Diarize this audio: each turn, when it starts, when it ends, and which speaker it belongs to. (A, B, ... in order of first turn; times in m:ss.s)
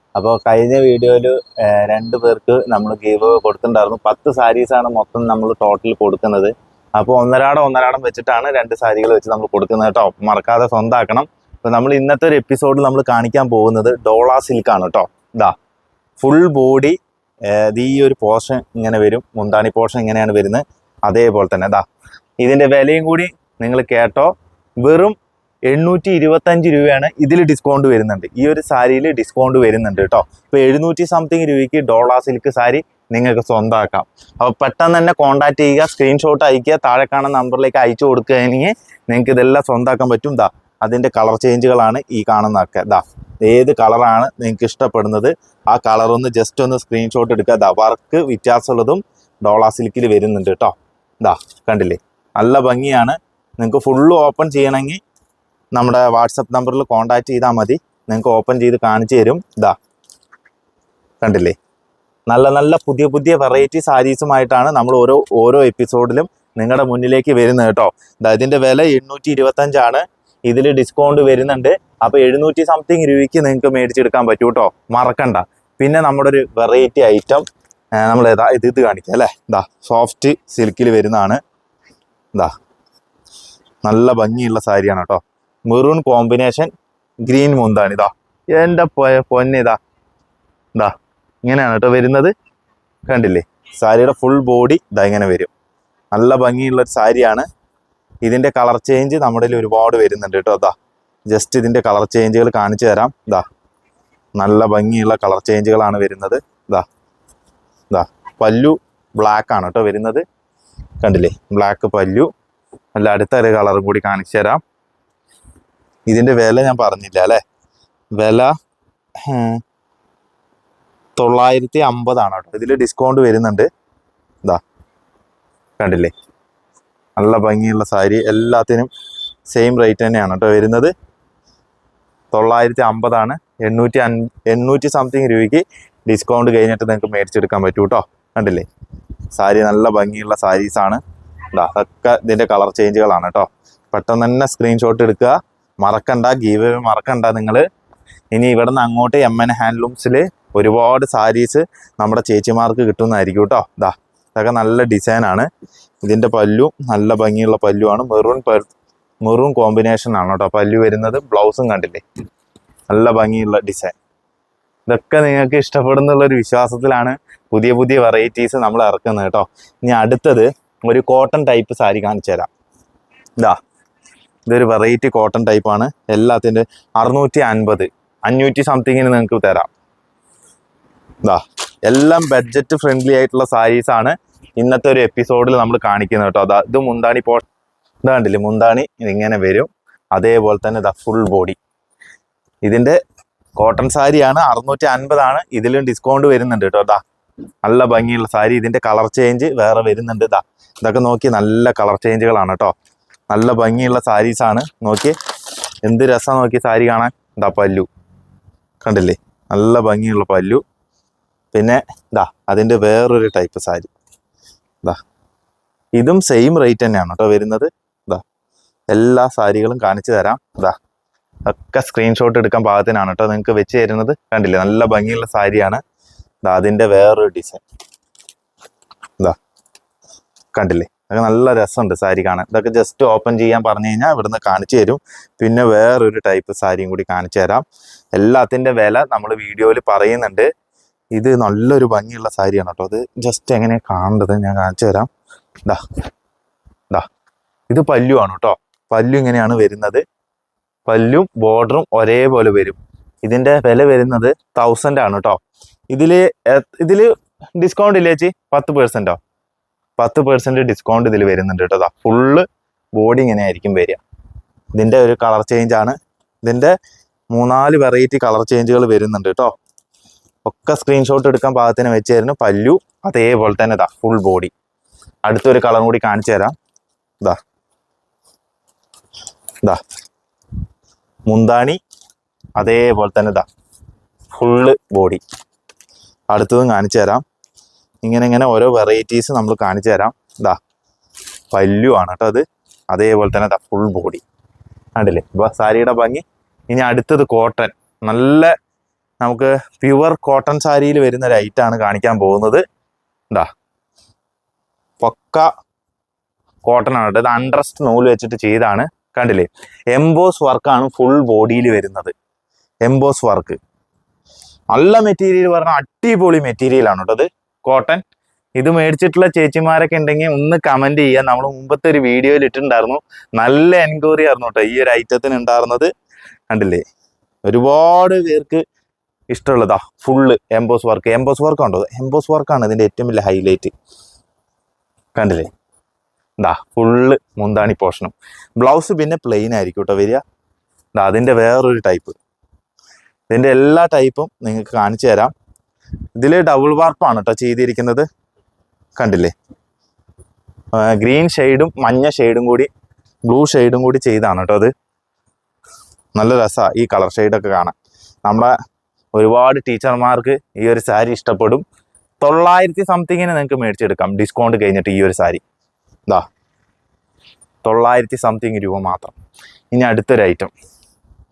0:00.2-0:15.5 A
0:16.2-0:17.0 A
0:17.5-0:21.8 A
0:22.4-0:25.2 A
0:25.7-0:55.0 A
0:55.7-0:59.7 A
1:01.2-1:01.6 A
1:02.3-1:17.4 A
1:18.0-1:21.4 A
1:23.8-1:26.7 A
1:27.2-1:29.8 A
1:31.4-1:32.3 A
1:33.1-1:35.5 A
1:36.1-1:37.5 A
1:38.2-1:40.7 A
1:41.3-1:43.4 A
1:44.4-1:46.8 A
1:47.9-1:50.2 A
1:51.0-1:52.3 A
1:52.9-1:54.6 A
1:56.1-1:57.4 A
1:58.2-1:58.5 A
1:59.2-1:59.6 A
2:01.2-2:03.7 A
2:05.8-2:06.1 A
2:07.2-2:08.9 A
2:09.5-2:10.9 A
2:12.3-2:18.6 A
2:19.3-2:21.0 A
2:21.5-2:27.6 A
2:28.3-2:35.5 A
2:36.0-2:38.7 A
2:39.2-2:42.0 A
2:42.9-2:43.9 A
2:44.9-2:52.5 A
2:54.5-2:59.7 A
3:01.2-3:07.4 A
3:08.0-3:11.6 A
3:12.6-3:13.0 A
3:13.6-3:17.0 A
3:17.6-3:22.7 A
3:23.3-3:25.1 A
3:25.8-3:27.9 A
3:28.8-3:30.6 A
3:31.5-3:33.9 A
3:36.0-3:38.2 A
3:38.9-3:40.8 A
3:41.5-3:45.8 A
3:46.4-3:47.6 A
3:50.6-3:57.6 A
3:58.2-4:00.5 A
4:01.1-4:05.1 A
4:07.7-4:10.0 A
4:10.8-4:15.4 A
4:15.9-4:19.2 A
4:20.0-4:24.0 A
4:24.7-4:26.7 A
4:27.3-4:29.5 A
4:30.4-4:34.5 A
4:35.2-4:36.5 A
4:41.3-4:41.8 A
4:42.6-4:43.4 A
4:44.3-4:45.2 A
4:46.3-4:47.2 A
4:48.0-4:50.6 A
4:51.5-4:54.2 A
4:55.0-4:58.5 A
4:59.2-5:02.6 A
5:05.0-5:05.5 A
5:06.6-5:12.1 A
5:12.8-5:13.6 A
5:14.7-5:18.0 A
5:18.6-5:25.9 A
5:26.5-5:26.8 A
5:27.4-5:28.6 A
5:29.3-5:33.7 A
5:35.1-5:35.5 A
5:36.4-5:40.2 A
5:41.0-5:42.2 A
5:43.3-5:45.3 A
5:46.2-5:48.1 A
5:49.0-5:49.3 A
5:50.7-5:52.7 A
5:53.3-5:54.7 A
5:56.2-5:58.5 A
5:59.1-6:01.6 A
6:02.2-6:05.4 A
6:07.6-6:09.1 A
6:09.7-6:10.5 A